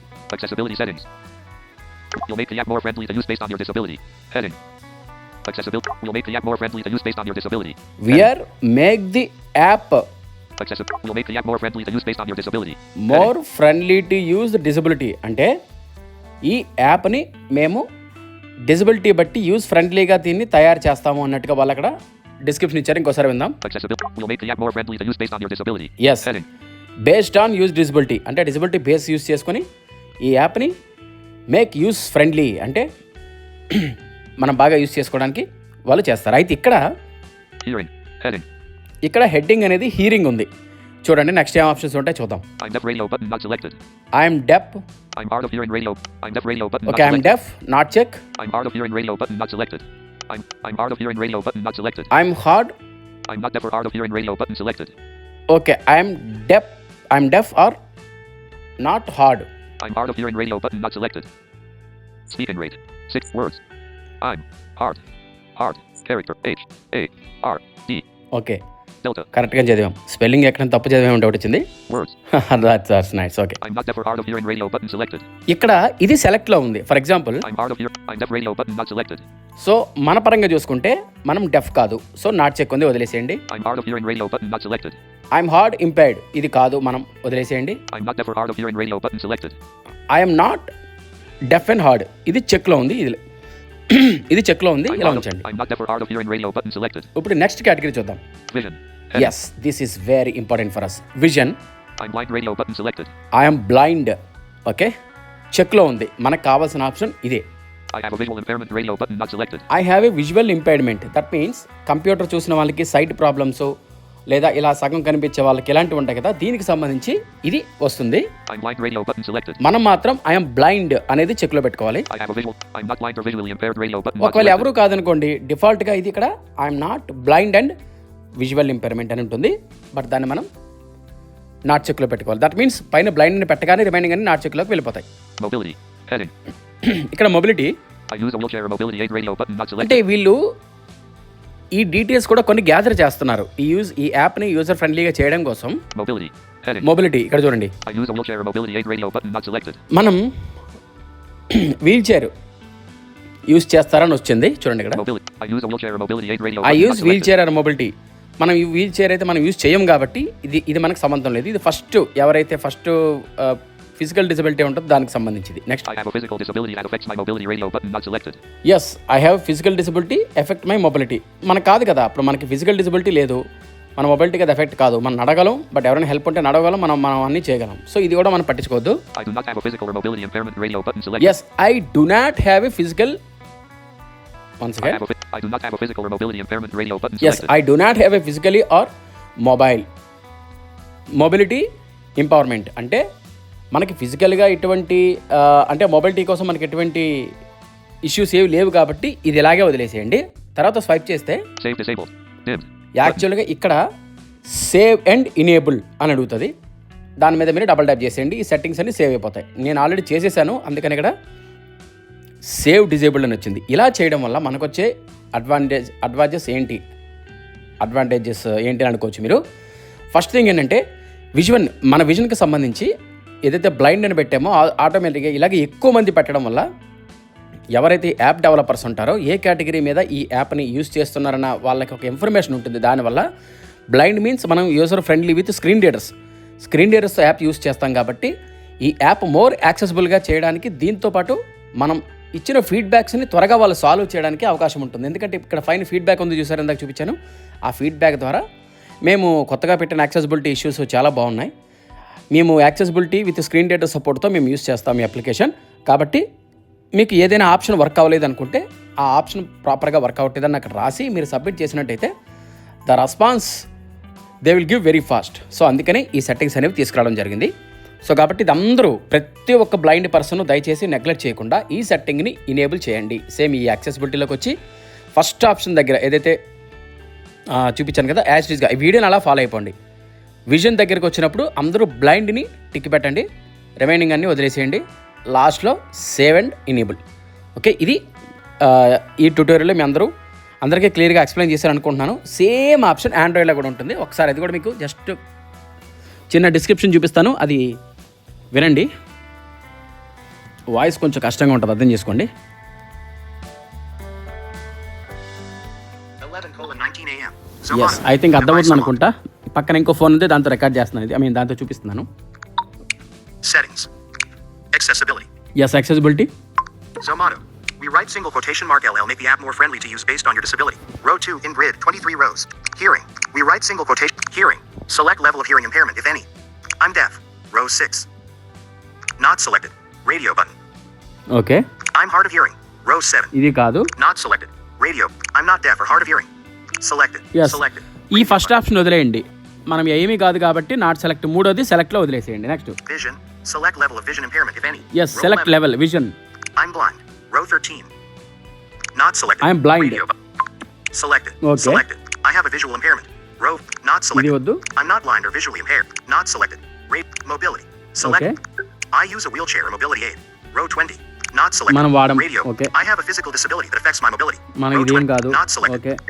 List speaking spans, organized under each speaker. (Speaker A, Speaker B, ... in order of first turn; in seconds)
Speaker A: 0.3-1.1, 2.1-4.6, 5.5-8.3, 10.6-13.3, 23.6-26.4, 37.6-38.4, 42.6-43.8, 45.1-47.3, 48.4-52.1, 53.3-54.9, 59.8-61.3, 62.3-63.6, 64.2-65.0, 65.5-68.0, 69.0-69.3, 71.9-72.1, 73.6-75.2, 77.4-79.2, 83.5-85.0, 87.9-89.6, 94.9-97.1, 98.5-99.3, 102.0-103.1, 107.9-109.7, 118.5-119.6, 122.1-124.7, 135.4-136.3, 138.1-140.0, 145.9-146.9, 147.8-149.8, 154.9-157.3, 165.8-168.4, 179.1-181.3, 184.8-187.5, 201.6-203.2
Speaker B: 8.0-10.0, 13.0-15.5, 16.4-17.8, 18.7-21.9, 22.4-23.6, 26.0-26.3, 27.1-29.6, 30.2-30.7, 31.5-32.8, 33.7-36.8, 39.0-40.5, 41.0-42.4, 44.2-44.8, 46.9-48.2, 52.1-52.7, 55.5-57.7, 58.8-59.5, 69.3-71.6, 72.3-73.6, 75.5-77.5, 79.6-83.4, 85.3-87.8, 90.1-90.7, 91.5-93.2, 93.9-95.5, 97.2-98.2, 99.1-101.5, 103.3-104.1, 105.5-107.4, 109.7-113.7, 114.3-118.2, 119.6-122.0, 124.2-127.7, 128.4-130.5, 131.7-135.1, 136.8-137.7, 139.8-140.4, 141.8-145.8, 146.8-147.7, 149.9-150.2, 151.5-152.3, 153.5-155.0, 156.6-165.9, 168.7-173.4, 174.0-179.0, 181.2-183.2, 184.6-185.0, 187.2-188.9, 189.4-189.8, 191.2-191.6, 192.2-193.0, 193.7-197.3, 198.1-201.4, 202.9-203.8, 204.5-206.5, 207.2-211.1, 212.5-216.8, 217.8-219.4, 220.1-220.8, 221.3-222.9, 223.4-226.6, 227.8-233.2, 233.9-236.1, 236.6-238.3, 238.8-247.2, 247.7-248.4, 249.1-251.5, 252.3-256.2, 257.0-262.1, 262.9-263.5, 264.4-267.5, 268.1-274.5, 275.1-276.4, 277.5-279.7, 280.5-283.2, 283.8-284.8, 285.3-287.0, 287.6-288.0, 288.6-290.1, 290.6-295.2, 296.3-297.6, 298.5-298.9, 300.7-302.3, 307.7-312.1, 315.6-316.3, 331.3-331.6, 333.3-333.9, 337.3-342.8, 344.9-346.1, 349.4-350.0, 351.4-351.8, 354.1-354.6, 358.0-358.4, 361.7-362.7, 364.6-366.0
Speaker C: 306.2-308.9, 313.4-313.9, 314.7-315.2, 317.0-326.2, 326.8-328.1, 329.2-330.5, 331.9-333.3, 333.9-336.3, 336.8-338.5, 342.9-345.5, 346.6-347.9, 348.9-350.1, 350.9-358.2, 358.9-365.8